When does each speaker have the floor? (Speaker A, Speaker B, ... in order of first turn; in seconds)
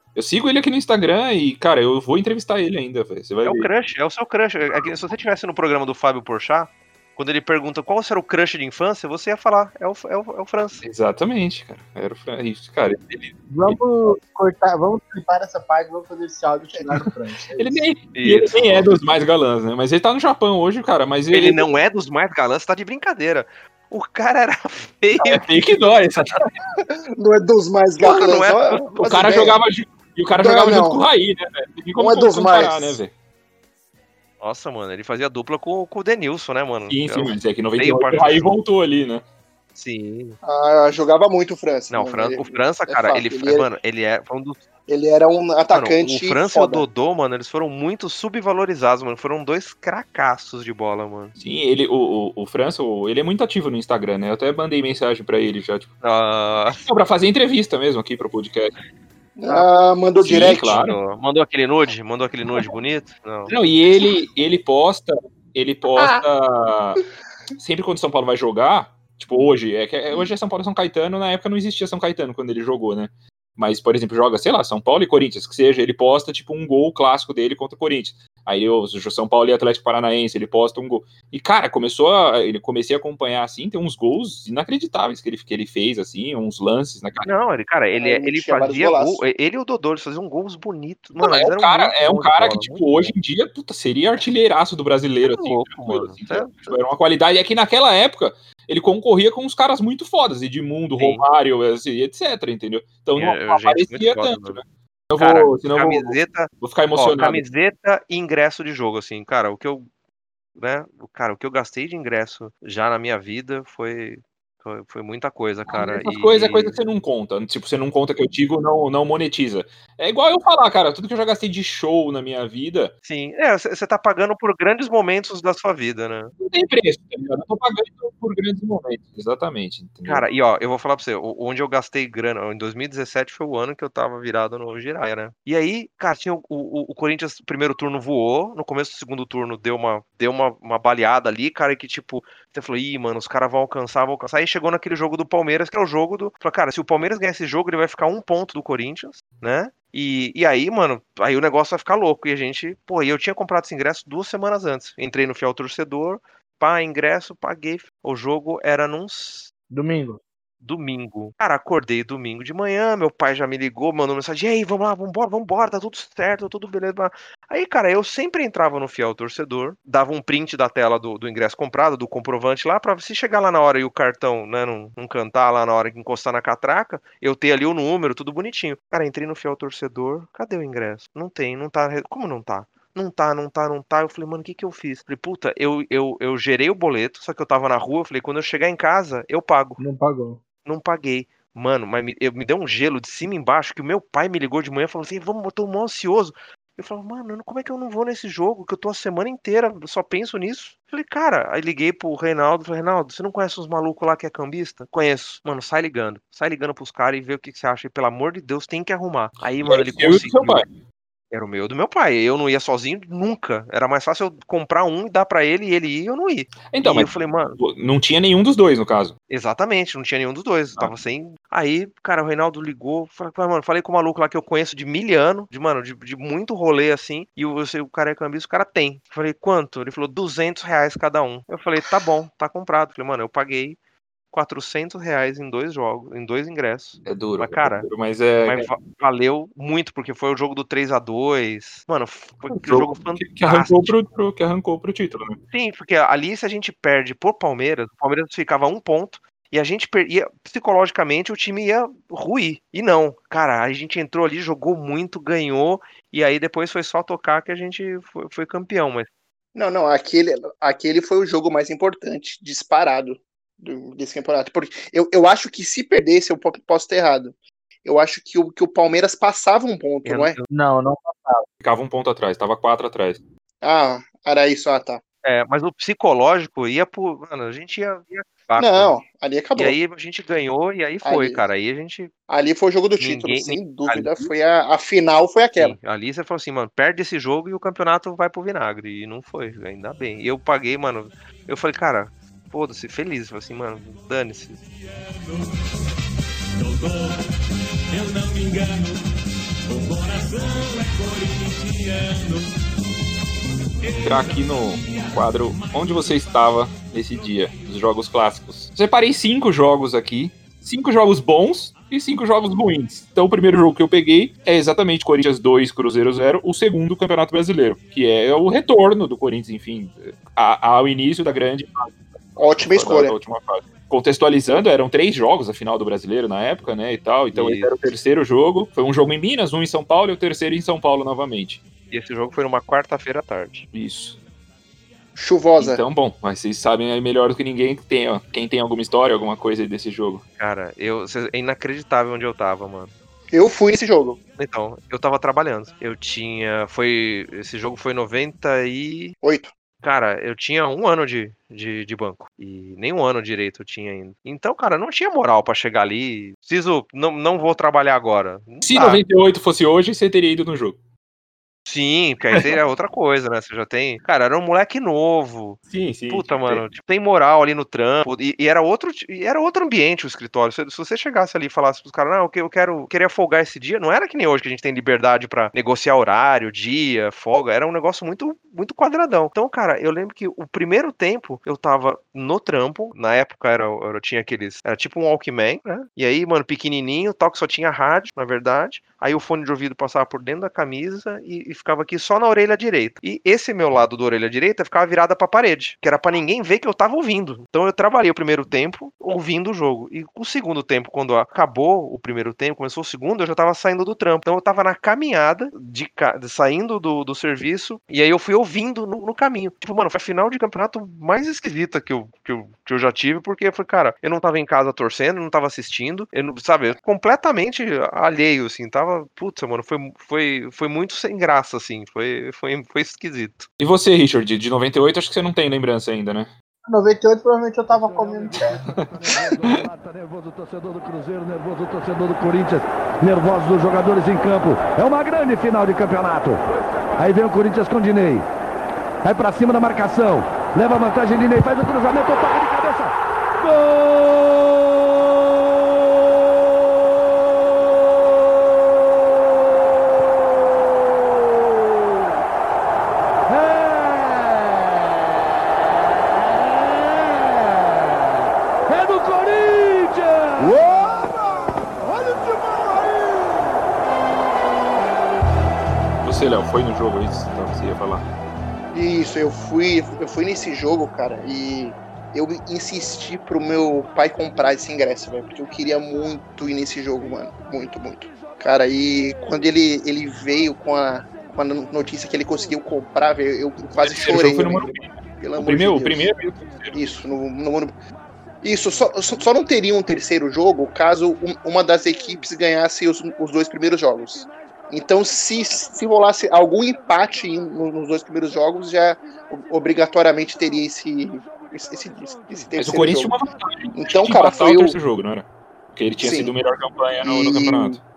Speaker A: 0.1-3.7, 10.8-13.8, 17.6-21.6, 25.2-26.4, 29.0-33.1, 36.9-39.2, 51.4-55.9, 56.8-58.7, 60.2-61.0, 63.5-67.0, 67.6-87.3, 91.2-107.4, 115.7-122.9, 126.4-130.2, 209.6-210.7, 216.7-219.1, 237.1-238.7, 242.5-245.4, 271.6-273.2, 304.0-331.6, 333.7-334.2, 335.6-340.2, 358.6-360.8, 365.7-366.6, 423.6-426.3, 429.0-429.6, 466.0-468.1, 483.8-486.8, 502.6-507.8
Speaker B: 3.4-10.8, 18.1-18.9, 21.3-25.6, 28.0-29.0, 34.4-38.5, 39.8-40.4, 41.9-44.6, 45.7-51.4, 56.0-56.8, 60.4-63.5, 87.2-93.1, 95.2-96.8, 101.0-101.2, 103.2-104.6, 105.2-109.9, 110.6-116.8, 123.0-126.3, 130.1-159.5, 160.6-189.8, 190.6-210.6, 211.3-217.6, 219.3-233.8, 234.3-237.9, 238.4-243.9, 245.5-259.1, 270.0-270.4, 275.2-278.9, 279.6-282.1, 283.0-284.3, 285.6-294.6, 327.3-327.7, 331.9-333.7, 340.4-342.9, 344.4-349.1, 349.8-359.0, 361.7-423.5
Speaker C: 13.5-17.9, 159.7-160.2, 189.8-190.4, 270.5-271.4, 426.6-428.6
Speaker D: 27.2-29.6, 30.4-31.0, 31.9-33.0, 40.4-43.7, 44.9-46.9, 59.4-60.8, 87.9-89.2, 259.5-270.4, 273.6-275.0, 278.6-279.8, 281.0-281.4, 282.3-285.8, 322.4-323.1, 335.1-335.8, 343.3-344.2, 349.2-349.5, 468.7-486.1, 486.7-487.8, 488.4-503.1, 503.7-504.8, 506.0-506.3, 507.0-507.8
Speaker E: 427.7-436.4, 436.9-438.2, 439.0-442.9, 458.7-460.7